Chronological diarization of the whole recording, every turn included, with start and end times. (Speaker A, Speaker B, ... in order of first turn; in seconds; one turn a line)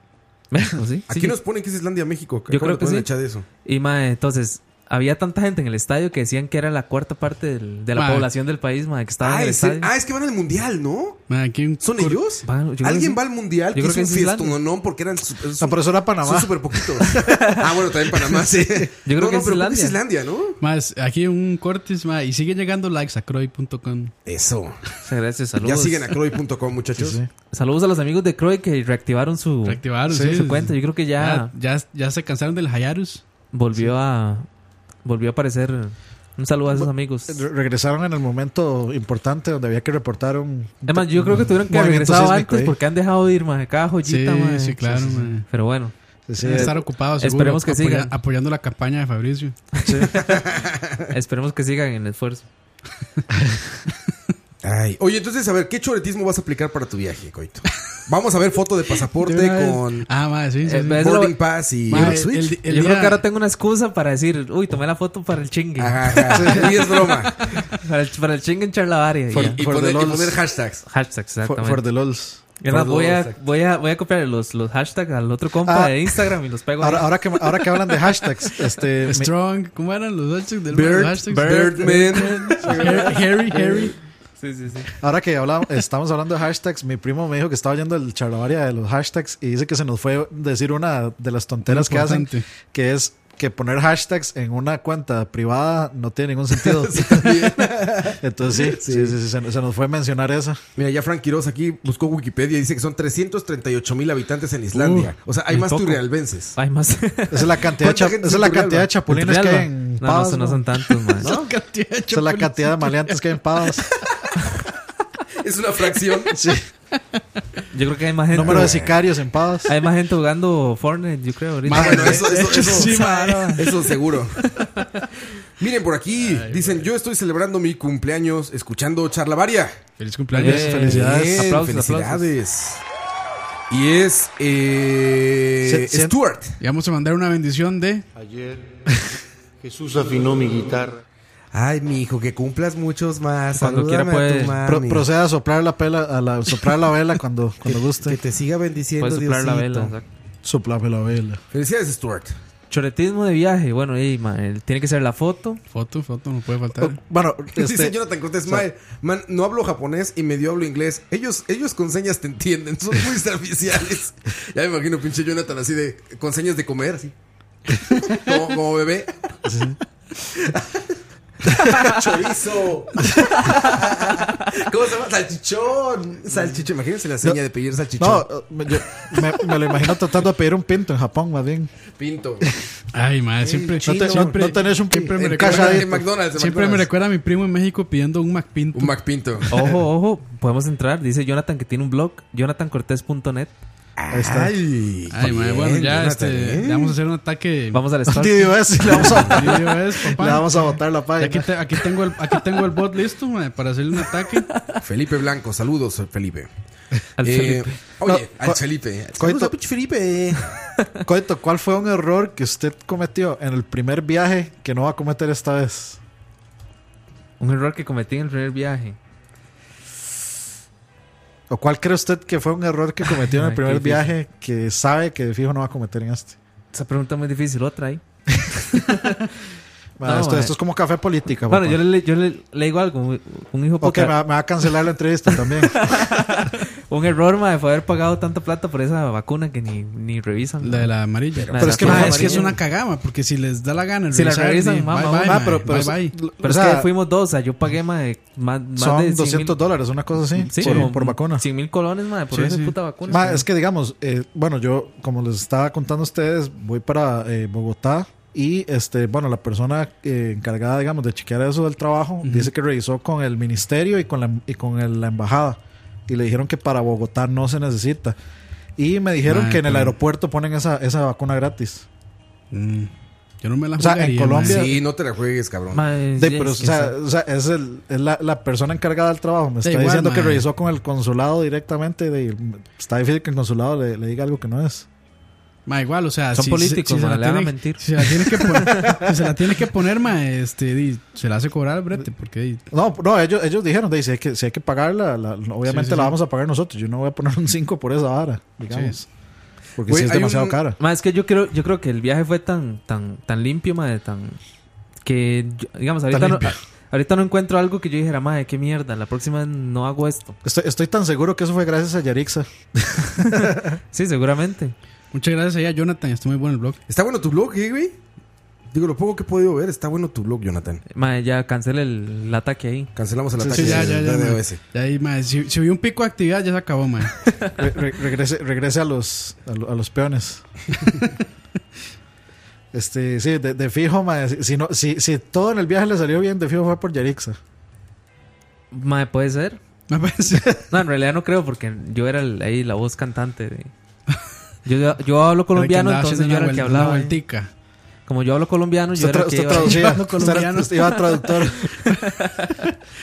Speaker A: 0.5-1.4
Speaker B: 1.1-3.4
Speaker A: 2.5-3.1
Speaker A: 3.6-9.9
Speaker C: 7.9-8.3
Speaker B: 9.2-11.2
Speaker C: 11.3-12.2
Speaker B: 11.8-20.6
Speaker A: 12.4-14.6
Speaker D: 15.6-17.4
Speaker A: 17.2-17.6
Speaker D: 18.5-18.8
Speaker A: 19.1-20.0
Speaker C: 20.6-24.1
Speaker B: 24.2-24.8
Speaker A: 25.0-26.1
Speaker B: 25.6-27.2
Speaker D: 26.9-27.3
Speaker A: 27.5-31.5
Speaker C: 29.6-33.2
Speaker D: 30.1-30.4
Speaker A: 33.5-34.5
Speaker A: 35.0-37.4
Speaker D: 36.7-42.8
Speaker A: 40.9-48.1
Speaker C: 44.0-45.5
Speaker D: 46.3-46.8
Speaker C: 46.4-49.8
Speaker A: 49.8-50.4
Speaker B: 50.1-51.1
Speaker A: 51.1-52.5
Speaker B: 54.6-60.1
Speaker C: 59.2-61.0
Speaker A: 60.6-61.4
Speaker B: 60.9-62.6
Speaker C: 61.9-63.2
Speaker A: 61.9-66.7
Speaker B: 65.8-67.5
Speaker D: 66.3-66.7
Speaker A: 67.6-69.6
Speaker B: 69.3-70.8
Speaker D: 69.3-70.4
Speaker A: 70.9-71.8
Speaker D: 71.4-72.4
Speaker A: 72.6-77.2
Speaker B: 72.7-73.4
Speaker D: 75.7-79.3
Speaker C: 79.0-83.9
Speaker B: 80.7-83.8
Speaker A: 81.3-83.0
Speaker A: 84.4-84.9
Speaker D: 85.0-97.5
Speaker C: 91.7-92.4
Speaker B: 96.6-99.2
Speaker D: 98.2-100.6
Speaker B: 100.8-106.5
Speaker C: 104.7-105.1
Speaker A: 105.5-107.6
Speaker D: 107.3-110.6
Speaker B: 107.8-108.9
Speaker A: 109.1-111.4
Speaker C: 111.2-113.2
Speaker D: 112.1-113.8
Speaker B: 115.4-116.4
Speaker D: 116.3-116.6
Speaker A: 117.7-118.8
Speaker D: 118.3-119.7
Speaker B: 118.4-119.0
Speaker A: 119.7-123.6
Speaker C: 121.7-123.8
Speaker B: 121.7-124.4
Speaker B: 125.6-129.8
Speaker C: 126.2-126.9
Speaker C: 130.0-130.8
Speaker A: 130.3-132.3
Speaker D: 130.4-131.5
Speaker B: 130.8-132.8
Speaker B: 133.7-136.6
Speaker D: 135.6-136.2
Speaker C: 136.6-138.1
Speaker E: 138.2-138.8
Speaker E: 139.6-141.0
Speaker B: 141.5-145.1
Speaker A: 143.6-144.6
Speaker D: 144.6-148.2
Speaker B: 147.7-149.9
Speaker A: 149.0-150.1
Speaker D: 150.4-151.4
Speaker B: 151.5-152.4
Speaker A: 152.7-155.6
Speaker C: 155.7-157.0
Speaker D: 156.8-158.7
Speaker B: 157.5-167.2
Speaker B: 168.1-169.1
Speaker D: 169.4-169.8
Speaker B: 171.6-178.3
Speaker D: 178.0-181.7
Speaker B: 181.9-182.5
Speaker C: 182.9-189.0
Speaker B: 183.4-184.5
Speaker D: 183.8-186.0
Speaker B: 185.1-186.9
Speaker B: 188.7-189.5
Speaker A: 189.5-193.5
Speaker B: 194.0-196.9
Speaker D: 194.1-194.5
Speaker C: 195.1-197.9
Speaker A: 197.7-199.0
Speaker D: 198.1-201.5
Speaker C: 198.9-204.5
Speaker B: 204.8-206.5
Speaker A: 207.2-207.8
Speaker B: 207.2-210.4
Speaker D: 208.1-208.6
Speaker D: 209.2-209.6
Speaker D: 211.1-216.0
Speaker A: 217.4-219.0
Speaker D: 221.5-226.3
Speaker A: 223.1-224.1
Speaker A: 226.7-228.0
Speaker A: 228.7-229.3
Speaker D: 230.0-231.8
Speaker A: 230.0-230.6
Speaker A: 231.5-234.2
Speaker D: 233.8-236.1
Speaker A: 235.3-242.5
Speaker C: 240.6-246.2
Speaker B: 241.3-242.5
Speaker D: 241.6-242.4
Speaker A: 244.1-245.7
Speaker D: 245.2-246.9
Speaker A: 246.4-249.6
Speaker D: 248.8-251.4
Speaker A: 250.4-253.4
Speaker C: 250.6-250.9
Speaker C: 252.3-253.4
Speaker D: 253.1-268.2
Speaker C: 262.2-262.5
Speaker D: 268.8-271.9
Speaker C: 269.2-269.9
Speaker C: 272.5-274.7
Speaker D: 273.8-274.7
Speaker B: 274.4-275.8
Speaker A: 275.7-276.9
Speaker D: 276.1-284.9
Speaker C: 279.6-280.4
Speaker C: 285.6-292.6
Speaker A: 286.3-288.8
Speaker D: 292.7-299.1
Speaker C: 295.7-296.1
Speaker C: 298.7-299.0
Speaker D: 299.8-300.8
Speaker B: 299.8-300.6
Speaker A: 300.8-304.4
Speaker A: 305.1-310.4
Speaker D: 306.1-306.5
Speaker D: 310.4-313.8
Speaker A: 313.2-314.7
Speaker C: 315.1-316.8
Speaker B: 316.9-318.0
Speaker B: 318.7-320.8
Speaker A: 320.9-322.9
Speaker B: 322.9-324.6
Speaker D: 323.4-323.9
Speaker C: 323.5-327.1
Speaker D: 327.6-330.4
Speaker D: 332.7-337.4
Speaker A: 338.7-339.6
Speaker C: 339.9-340.6
Speaker A: 340.7-343.7
Speaker A: 344.6-347.2
Speaker C: 345.5-347.5
Speaker A: 348.1-350.4
Speaker D: 348.9-351.7
Speaker C: 349.6-351.9
Speaker A: 351.8-352.6